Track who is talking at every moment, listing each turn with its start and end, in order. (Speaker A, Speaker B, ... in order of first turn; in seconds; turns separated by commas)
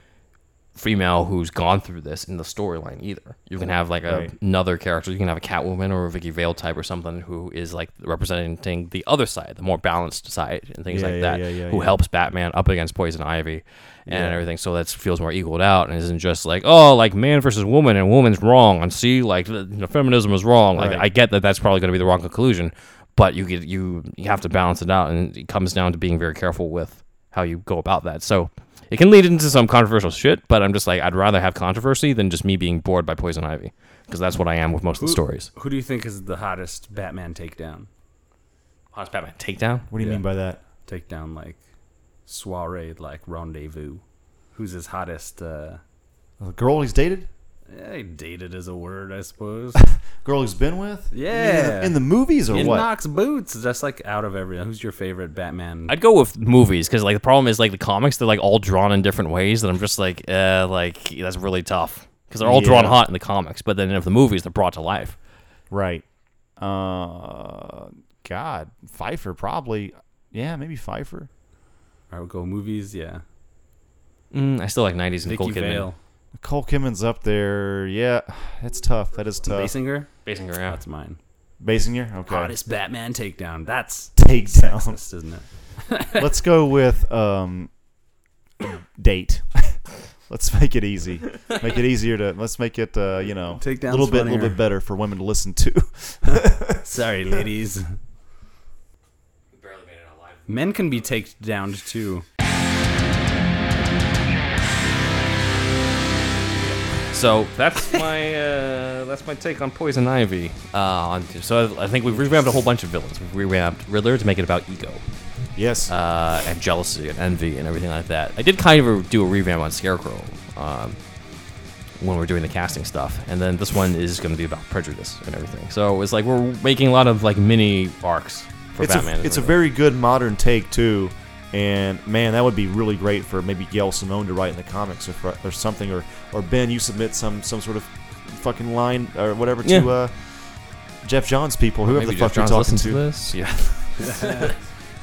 Speaker A: 0.8-35.5, Speaker B: 4.1-4.3, Speaker B: 10.9-11.9, Speaker B: 14.1-14.4, Speaker B: 20.7-21.0, Speaker C: 35.0-37.9, Speaker A: 38.9-39.9, Speaker B: 39.9-40.6, Speaker C: 40.0-40.2, Speaker C: 40.9-41.6, Speaker C: 42.3-44.0, Speaker C: 44.5-45.8, Speaker B: 46.4-47.3, Speaker C: 47.7-49.8, Speaker B: 49.8-52.9, Speaker C: 51.1-55.9, Speaker A: 55.9-65.2, Speaker B: 62.4-63.0, Speaker B: 65.7-66.0, Speaker B: 66.6-71.3, Speaker C: 72.1-73.2, Speaker A: 74.3-75.9, Speaker C: 75.2-76.0, Speaker B: 76.4-79.7, Speaker C: 79.5-81.2, Speaker A: 80.2-80.8, Speaker B: 81.6-82.5, Speaker C: 82.2-86.2, Speaker B: 84.2-85.0, Speaker B: 86.1-87.7, Speaker B: 88.9-96.8, Speaker C: 93.5-94.6, Speaker C: 96.8-98.0, Speaker A: 99.5-101.1, Speaker C: 100.5-102.2, Speaker A: 107.1-115.0, Speaker B: 115.5-115.9, Speaker A: 115.9-121.0, Speaker A: 122.0-129.6, Speaker B: 128.8-140.4, Speaker B: 141.0-143.1, Speaker A: 141.9-144.5, Speaker C: 144.1-144.4